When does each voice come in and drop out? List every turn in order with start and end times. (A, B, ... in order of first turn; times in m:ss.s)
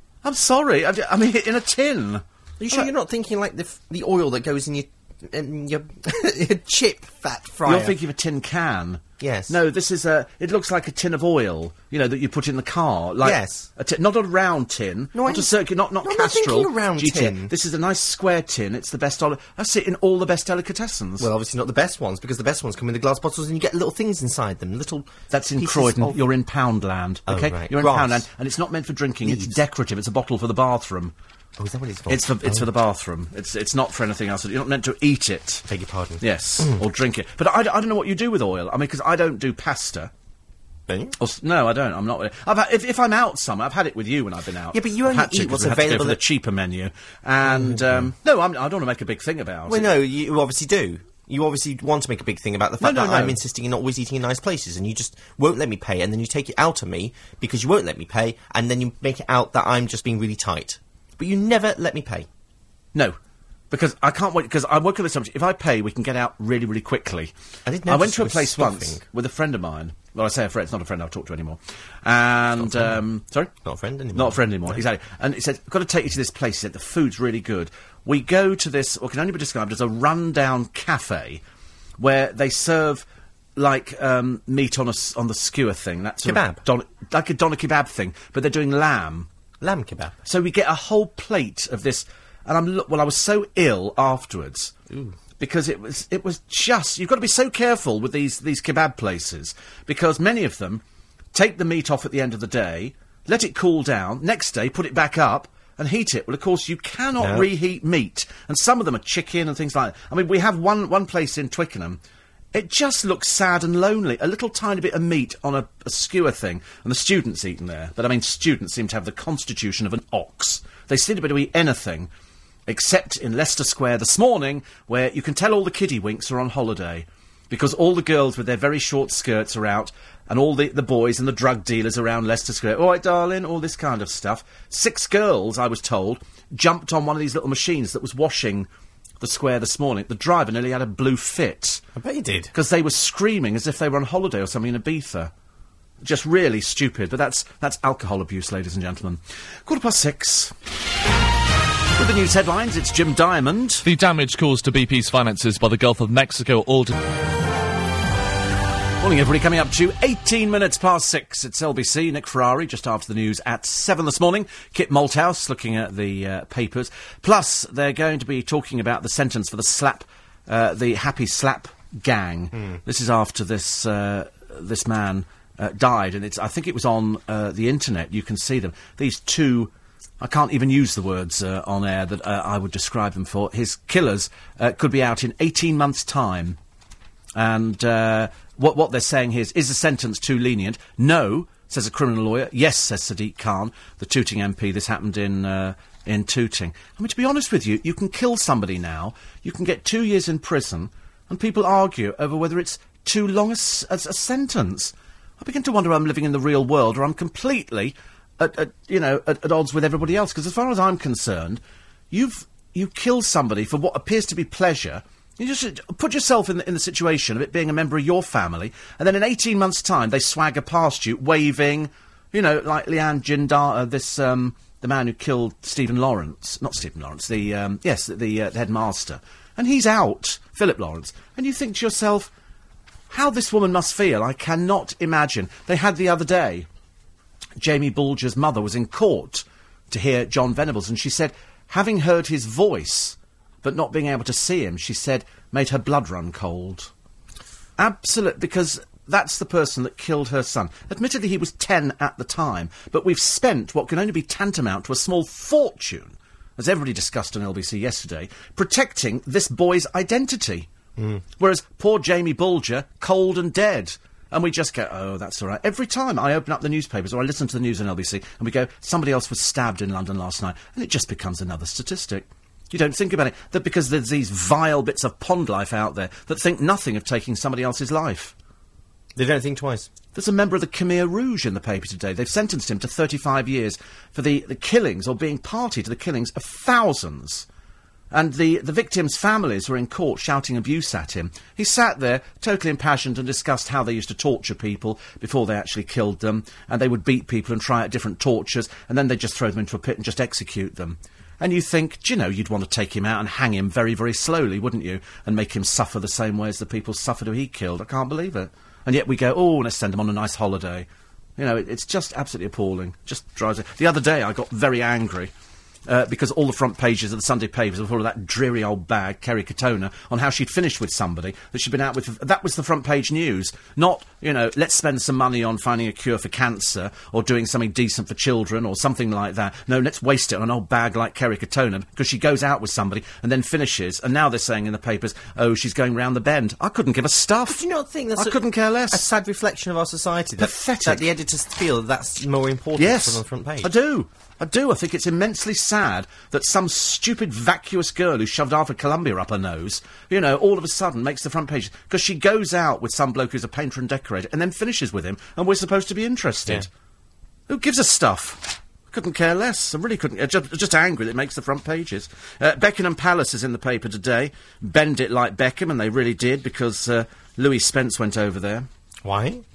0:00.2-0:02.9 A
0:02.6-0:08.0 B
0:07.6-0:21.3 A
0:09.2-0:09.6 B
0:13.2-0:13.7 B
0:15.1-0:17.5 B
0:21.2-0:26.2 B
0:25.3-0:31.1 A
0:27.3-0:28.2 B
0:29.2-0:29.6 B
0:31.6-0:32.7 B
0:32.1-0:35.7 A
0:35.7-0:36.8 B
0:36.2-0:40.1 A
0:40.9-0:41.2 B
0:41.2-0:49.9 A
0:44.7-0:46.2 B
0:47.4-0:48.1 B
0:49.7-1:02.3 B
0:52.8-0:53.4 A
1:03.7-1:07.3 A
1:07.6-1:09.0 B
1:07.8-1:13.5 A
1:12.6-1:13.0 B
1:13.6-1:14.8 B
1:14.1-1:21.4 A
1:22.0-1:23.0 A
1:23.6-1:29.3 A
1:26.2-1:26.6 B
1:29.6-1:30.2 B
1:30.2-1:34.7 A
1:34.9-1:35.1 B
1:35.4-1:40.8 A
1:41.3-1:52.0 A
1:47.2-1:47.5 B
1:52.5-2:02.1 A
2:02.7-2:18.7 A
2:19.2-2:21.8 A
2:21.9-2:22.5 B
2:22.5-2:25.3 A
2:26.0-2:30.5 A
2:32.0-2:33.8 A
2:33.8-2:36.9 C
2:39.0-3:06.6 A
2:52.5-2:52.8 B
3:07.3-3:52.3 A
3:53.1-3:56.7 A
3:57.6-4:06.9 A
4:07.8-4:20.7 A
4:21.0-4:21.2 B
4:21.4-4:38.3 A
4:39.2-4:39.9 B
4:40.1-4:47.4 A
4:48.1-5:10.9 A
5:11.4-5:15.3 A
5:15.9-5:37.6 A
5:37.4-5:43.7 B
5:38.1-5:39.0 A
5:40.4-5:41.1 A
5:42.8-5:56.7 A
5:57.5-6:08.7 A
6:09.0-6:09.4 B